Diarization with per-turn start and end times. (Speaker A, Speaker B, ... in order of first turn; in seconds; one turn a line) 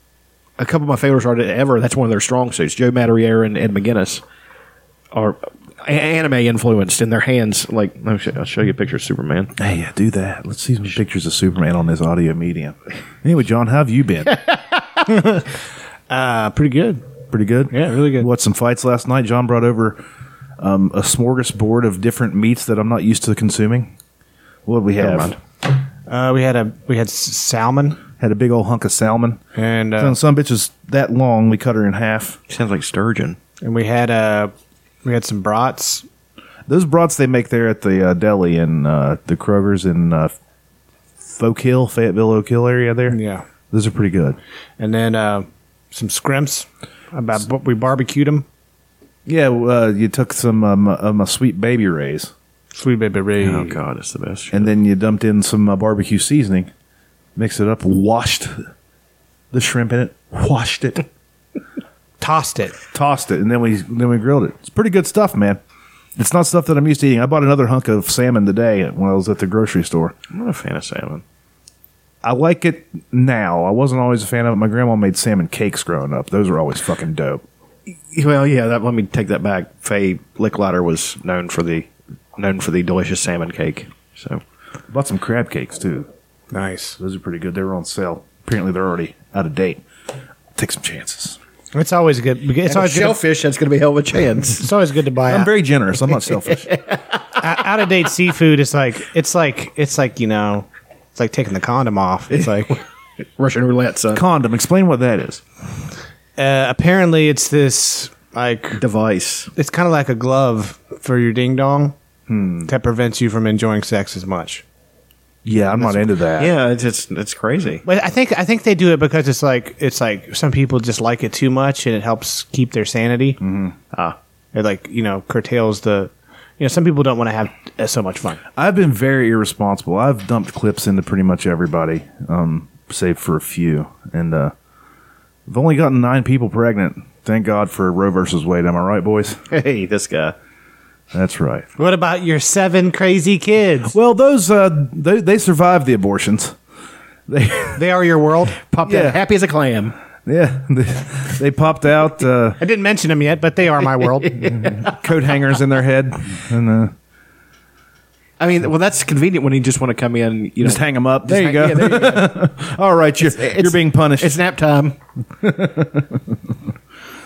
Speaker A: 0.6-4.2
Speaker A: 5.1-9.6
Speaker B: 9.6-14.4
Speaker C: 15.1-15.4
Speaker C: 16.1-17.0
Speaker B: 17.3-20.0
Speaker C: 17.7-18.3
Speaker B: 20.6-23.9
Speaker B: 24.7-25.4
Speaker A: 25.0-25.4
Speaker C: 26.1-28.0
Speaker B: 28.2-29.4
Speaker C: 29.6-30.2
Speaker B: 30.0-32.4
Speaker A: 32.5-33.4
Speaker C: 33.6-34.5
Speaker C: 35.0-36.0
Speaker B: 36.7-40.3
Speaker B: 41.2-43.2
Speaker C: 43.1-43.4
Speaker B: 43.7-44.4
Speaker C: 44.8-48.5
Speaker B: 49.3-52.3
Speaker C: 52.8-53.8
Speaker A: 53.4-54.7
Speaker B: 54.5-56.7
Speaker B: 57.4-58.6
Speaker B: 59.5-61.0
Speaker C: 62.2-62.8
Speaker B: 62.9-65.6
Speaker B: 66.2-70.1
Speaker A: 70.3-71.2
Speaker B: 72.2-77.4
Speaker A: 78.1-84.4
Speaker B: 84.9-86.1
Speaker C: 86.5-87.0
Speaker B: 87.0-89.8
Speaker B: 90.6-91.4
Speaker C: 91.7-93.2
Speaker A: 92.7-94.7
Speaker C: 94.4-95.5
Speaker B: 95.3-96.7
Speaker A: 96.5-97.0
Speaker C: 97.4-102.8
Speaker A: 103.4-104.2
Speaker B: 104.1-105.4
Speaker C: 106.4-108.8
Speaker A: 108.8-109.5
Speaker C: 109.6-112.0
Speaker B: 112.3-112.7
Speaker C: 112.7-114.6
Speaker B: 115.5-116.5
Speaker A: 116.4-117.8
Speaker C: 117.9-123.4
Speaker B: 123.4-123.8
Speaker C: 124.5-128.4
Speaker B: 128.6-134.5
Speaker B: 135.5-139.4
Speaker A: 139.5-140.3
Speaker B: 141.1-141.7
Speaker C: 141.8-143.9
Speaker B: 143.9-146.6
Speaker B: 147.3-147.8
Speaker C: 147.8-148.6
Speaker A: 148.6-149.9
Speaker B: 148.8-149.2
Speaker B: 150.3-152.6
Speaker C: 152.6-154.7
Speaker A: 154.4-154.9
Speaker B: 154.5-156.9
Speaker A: 158.4-162.5
Speaker B: 160.6-164.4
Speaker A: 163.2-165.0
Speaker B: 165.4-166.2